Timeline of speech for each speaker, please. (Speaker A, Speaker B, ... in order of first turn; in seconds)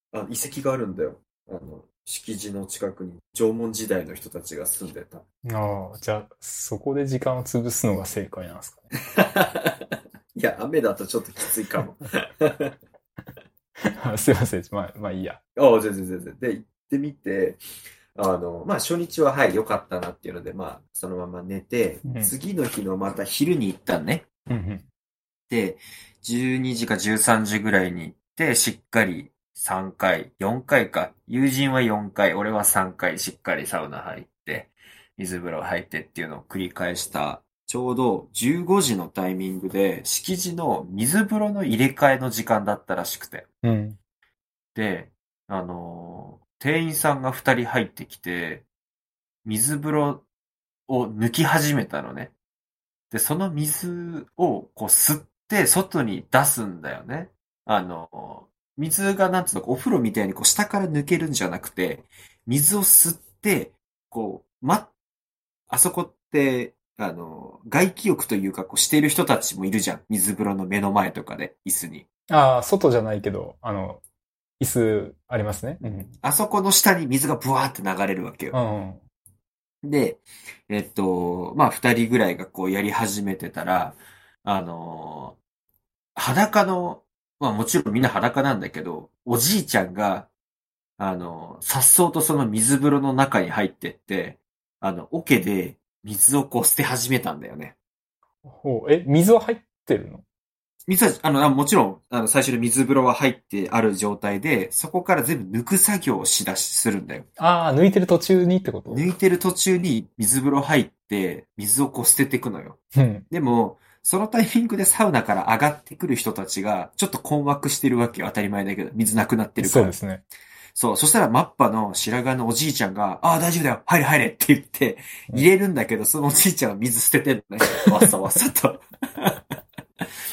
Speaker A: 0.1-5.2, 9.1-12.7, 15.6-17.6, 18.1-24.3, 25.5-43.5, 44.7-48.6, 49.4-50.2, 50.9-52.3, 53.1-64.9, 65.7-72.0, 76.1-78.6, 79.8-85.4, 86.2-90.3, 91.0-97.8, 100.9-107.3, 108.9-112.8, 113.3-120.0, 120.7-129.4
Speaker B: 5.4-8.8, 14.0-15.4, 22.0-22.3, 24.5-24.8, 43.6-44.0, 72.3-74.0, 74.6-76.1, 78.5-79.0, 98.4-100.2, 107.4-109.1, 112.9-113.3, 119.6-120.2